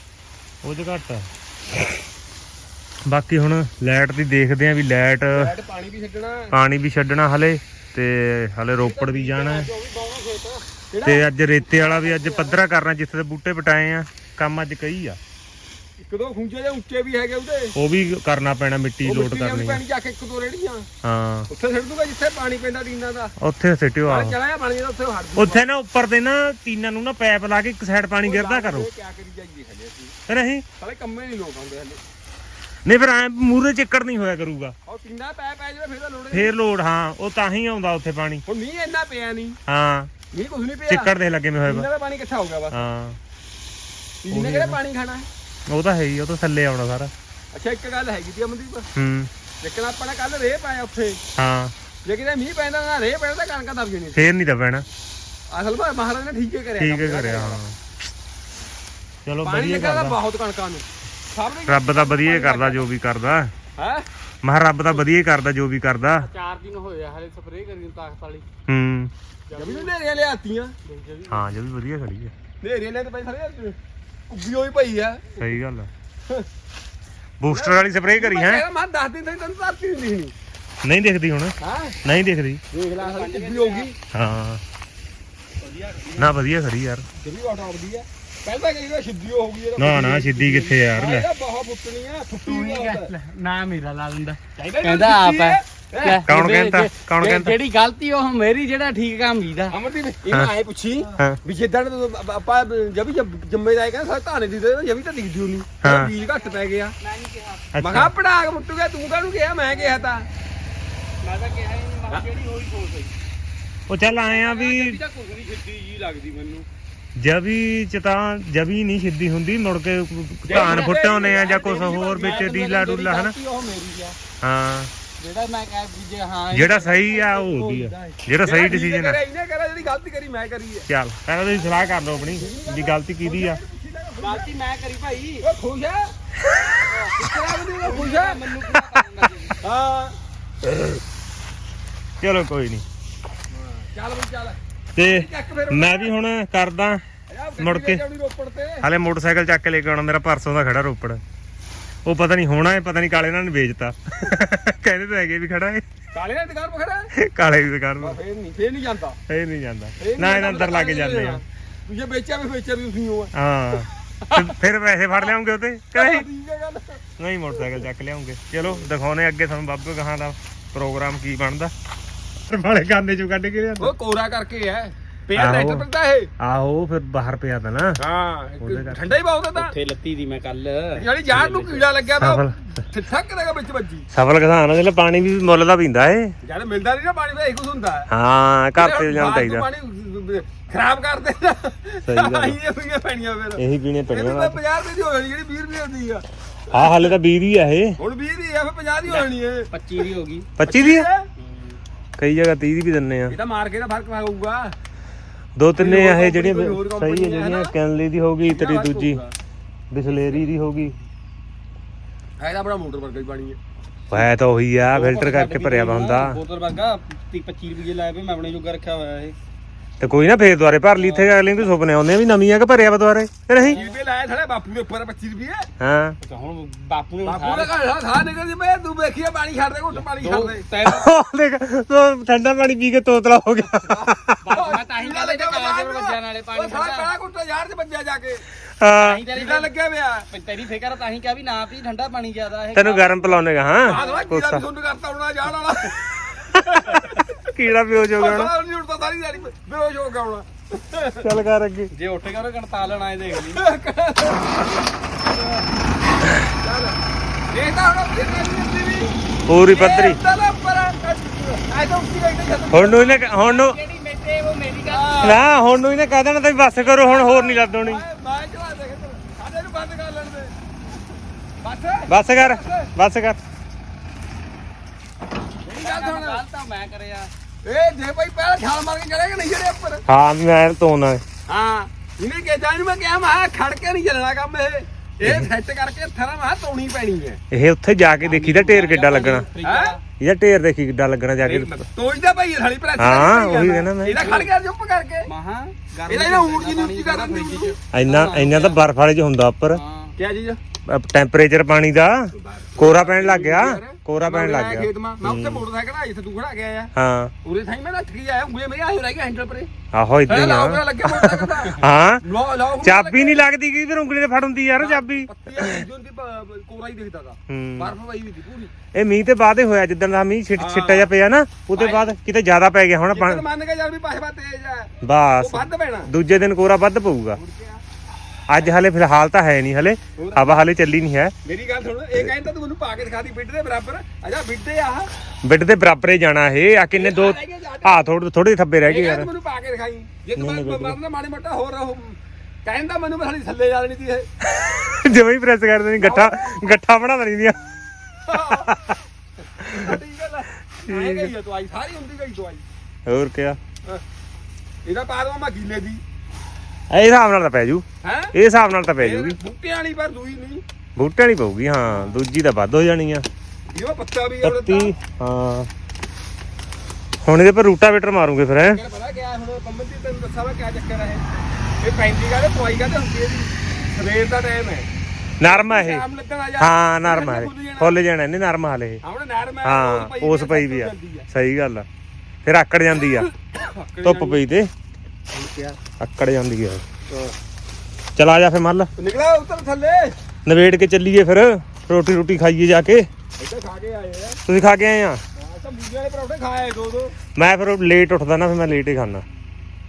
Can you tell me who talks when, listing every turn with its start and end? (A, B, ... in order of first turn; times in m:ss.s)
0:00.6-0:01.2 A
0:03.0-0:05.5 A
0:05.3-0:06.5 B
0:06.5-0:09.7 A
0:08.8-0:11.2 B
0:11.0-0:15.2 A
0:11.8-0:12.6 B
0:16.0-0:17.7 B
0:17.8-0:19.8 A
0:19.0-0:20.9 B
0:21.0-0:21.5 A
0:21.5-0:23.3 B
0:23.4-0:24.3 A
0:24.0-0:25.6 B
0:25.4-0:28.9 A
0:28.2-0:30.1 B
0:30.3-0:30.6 A
0:30.8-0:32.0 B
0:32.8-0:34.7 A
0:34.8-0:36.5 B
0:36.3-0:38.4 A
0:38.5-0:39.6 B
0:39.7-0:40.1 A
0:40.3-0:41.1 B
0:40.9-0:41.9 A
0:41.6-0:42.8 B
0:42.7-0:43.2 A
0:44.2-0:45.3 B
0:44.3-0:44.8 A
0:45.7-0:47.1 A
0:47.5-0:48.9 B
0:49.0-0:49.3 A
0:49.6-0:51.2 B
0:51.4-0:51.7 A
0:52.0-0:54.2 B
0:54.2-0:54.8 A
0:55.5-0:57.6 B
0:56.8-0:57.8 A
0:59.2-1:00.2 A
0:59.4-1:02.8 B
1:01.7-1:03.5 A
1:03.8-1:04.0 B
1:04.4-1:06.3 A
1:06.2-1:08.5 C
1:08.7-1:09.1 A
1:09.5-1:09.9 C
1:09.5-1:10.7 B
1:10.8-1:11.5 C
1:11.3-1:12.3 A
1:12.6-1:13.8 B
1:14.3-1:15.4 B
1:15.4-1:15.9 A
1:17.4-1:18.6 A
1:17.5-1:20.3 B
1:20.8-1:22.6 A
1:21.6-1:22.0 B
1:22.7-1:23.9 B
1:23.0-1:23.9 C
1:24.1-1:24.6 A
1:25.6-1:26.3 C
1:26.2-1:27.0 A
1:27.2-1:33.1 B
1:29.8-1:31.2 A
1:32.4-1:39.7 C
1:34.6-1:36.2 B
1:36.2-1:37.5 A
1:39.7-1:46.9 B
1:45.8-1:46.1 A
1:47.0-1:47.7 C
1:47.7-1:48.1 A
1:47.8-1:50.2 B
1:49.8-1:50.0 C
1:51.2-1:53.1 C
1:53.9-1:55.0 A
1:54.3-1:56.6 C
1:57.2-2:03.3 A
2:00.5-2:02.6 B
2:00.5-2:04.2 C
2:04.4-2:04.9 A
2:05.2-2:08.2 C
2:06.5-2:09.2 A
2:08.4-2:10.9 B
2:10.9-2:13.6 A
2:11.5-2:14.5 B
2:14.2-2:15.4 C
2:15.4-2:16.1 B
2:16.9-2:17.2 C
2:17.1-2:18.4 B
2:17.8-2:19.6 C
2:19.6-2:20.2 B
2:22.2-2:22.8 A
2:23.7-2:26.1 B
2:25.0-2:27.0 A
2:27.3-2:28.8 B
2:27.6-2:28.0 A
2:28.8-2:31.2 A
2:32.0-2:35.8 A
2:36.1-2:37.1 B
2:37.2-2:38.2 A
2:38.0-2:39.2 B
2:39.3-2:41.4 A
2:40.0-2:43.3 B
2:43.3-2:46.2 A
2:45.9-2:47.0 B
2:47.2-2:51.7 A
2:52.5-2:53.9 A
2:53.8-2:56.3 B
2:55.3-2:55.8 A
2:56.4-2:58.0 A
2:58.0-2:59.7 B
2:58.6-2:59.1 A
2:59.6-3:01.8 C
3:00.9-3:04.1 B
3:02.2-3:02.8 A
3:04.1-3:06.3 A
3:06.4-3:08.1 B
3:08.1-3:09.6 A
3:08.8-3:17.1 B
3:12.0-3:12.6 A
3:13.6-3:14.6 A
3:16.7-3:18.0 A
3:18.0-3:20.0 B
3:19.1-3:20.5 C
3:20.6-3:21.1 A
3:20.7-3:21.3 B
3:21.4-3:21.8 C
3:22.2-3:23.3 A
3:23.3-3:24.7 B
3:25.6-3:29.2 A
3:25.8-3:27.7 B
3:28.4-3:29.3 B
3:29.9-3:30.9 A
3:32.4-3:33.6 B
3:34.1-3:36.4 A
3:34.9-3:39.4 C
3:40.0-3:43.8 A
3:41.0-3:41.3 C
3:43.6-3:45.7 B
3:43.6-3:43.9 C
3:45.8-3:46.2 A
3:46.2-3:47.7 C
3:47.2-3:50.7 B
3:50.0-3:51.1 C
3:50.8-3:54.5 A
3:53.9-3:58.4 B
3:54.4-3:57.1 C
3:58.8-3:59.2 A
3:59.0-3:59.7 C
3:59.3-4:00.3 B
4:00.3-4:03.4 C
4:02.7-4:04.6 A
4:03.8-4:07.3 B
4:06.8-4:08.5 A
4:08.2-4:11.3 B
4:11.2-4:11.9 A
4:11.9-4:13.6 C
4:13.4-4:14.7 B
4:16.6-4:17.0 B
4:17.5-4:19.1 B
4:19.5-4:20.2 A
4:19.6-4:23.3 B
4:22.7-4:23.8 A
4:23.3-4:25.4 C
4:24.8-4:25.4 B
4:25.2-4:28.0 A
4:27.0-4:30.5 B
4:31.6-4:32.9 B
4:32.1-4:33.4 A
4:35.6-4:36.4 B
4:35.7-4:37.3 C
4:37.6-4:40.0 B
4:40.1-4:41.2 A
4:41.5-4:47.4 B
4:47.5-4:49.5 A
4:48.2-4:50.0 C
4:49.6-4:50.0 B
4:50.2-4:51.8 A
4:51.4-4:55.3 B
4:53.0-4:54.2 A
4:54.2-4:54.4 C
4:55.2-4:58.8 C
4:56.1-4:58.1 B
4:57.9-4:59.8 A
4:59.7-5:00.1 C
5:00.2-5:00.6 B
5:00.9-5:05.6 A
5:02.3-5:06.9 B
5:07.0-5:07.3 A
5:07.4-5:09.7 B
5:09.9-5:12.2 A
5:10.3-5:13.4 B
5:12.8-5:15.8 A
5:14.8-5:18.7 B
5:17.5-5:17.9 A
5:18.9-5:23.4 A
5:20.6-5:21.1 B
5:21.7-5:22.1 B
5:23.1-5:26.1 B
5:25.0-5:27.4 A
5:27.3-5:27.8 B
5:28.5-5:31.3 A
5:30.2-5:30.7 B
5:31.4-5:35.1 B
5:35.4-5:39.3 A
5:36.9-5:38.1 B
5:38.8-5:44.3 B
5:40.4-5:41.0 A
5:44.4-5:47.6 A
5:46.0-5:46.8 B
5:48.2-5:48.7 B
5:48.3-5:49.0 A
5:49.5-5:52.6 B
5:50.9-5:51.3 A
5:53.1-5:53.6 A
5:54.8-5:56.0 B
5:56.9-5:59.4 A
5:58.0-5:58.3 B
5:59.0-6:00.6 B
6:01.0-6:03.2 A
6:01.9-6:02.2 B
6:03.7-6:04.9 B
6:04.4-6:05.7 A
6:07.2-6:08.8 A
6:08.6-6:11.2 B
6:11.8-6:14.9 B
6:15.4-6:16.0 A
6:15.4-6:18.0 B
6:16.6-6:19.0 A
6:19.0-6:21.3 B
6:19.6-6:21.8 A
6:22.4-6:23.3 A
6:23.1-6:24.4 B
6:24.0-6:24.7 A
6:25.3-6:25.8 B
6:26.0-6:26.8 A
6:28.2-6:28.9 A
6:29.0-6:30.2 B
6:30.4-6:33.1 A
6:33.4-6:34.4 B
6:34.4-6:35.2 A
6:35.4-6:37.1 B
6:37.3-6:39.2 A